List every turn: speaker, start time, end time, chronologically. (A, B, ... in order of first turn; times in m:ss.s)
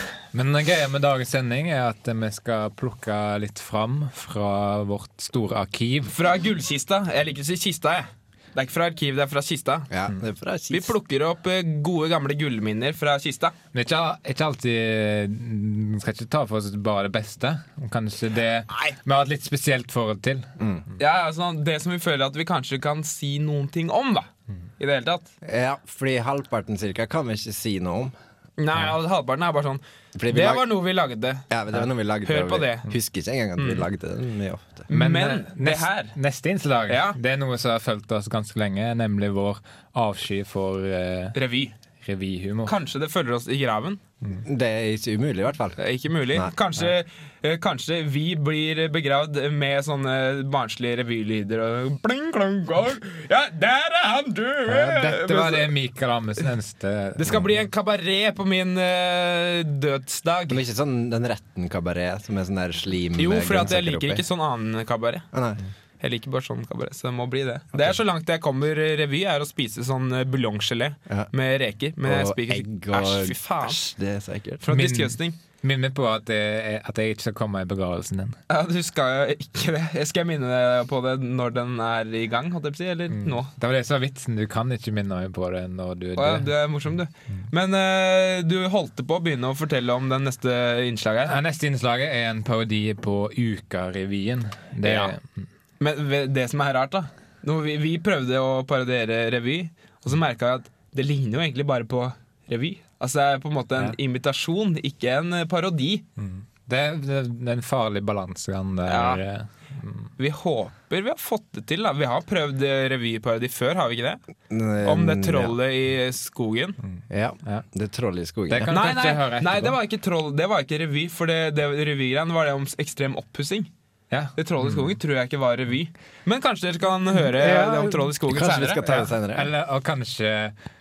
0:00.3-0:06.1 A
0:06.1-0:09.9 B
0:09.9-0:10.9 C
0:10.7-0:13.5 B
0:13.7-0:20.5 A
0:20.6-0:20.8 C
0:21.0-0:25.3 B
0:25.4-0:28.1 C
0:28.6-0:31.5 B
0:30.1-0:30.7 C
0:31.5-0:34.8 C
0:32.2-0:32.9 B
0:33.6-0:33.8 B
0:34.9-0:36.2 B
0:34.9-0:41.4 A
0:36.9-0:37.2 B
0:41.3-0:41.7 B
0:42.0-0:42.7 A
0:42.7-0:44.0 B
0:44.4-0:45.8 C
0:45.8-0:55.7 B
0:54.7-0:57.6 A
0:57.2-1:00.6 B
1:00.5-1:04.2 C
1:03.2-1:05.2 B
1:05.3-1:05.6 C
1:06.0-1:13.8 B
1:12.0-1:14.6 C
1:14.6-1:15.3 B
1:14.7-1:18.4 A
1:18.5-1:23.5 B
1:23.1-1:26.5 A
1:26.2-1:31.4 B
1:31.3-1:35.4 A
1:34.8-1:35.1 B
1:35.8-1:46.0 B
1:46.2-1:50.1 A
1:48.9-1:49.2 B
1:50.2-1:54.2 B
1:54.5-1:55.6 C
1:54.8-1:56.8 B
1:56.8-1:57.6 A
1:57.1-1:58.7 C
1:58.5-1:59.8 A
1:58.7-2:03.7 B
2:04.1-2:04.9 A
2:04.4-2:09.0 B
2:07.3-2:09.5 C
2:09.3-2:10.5 A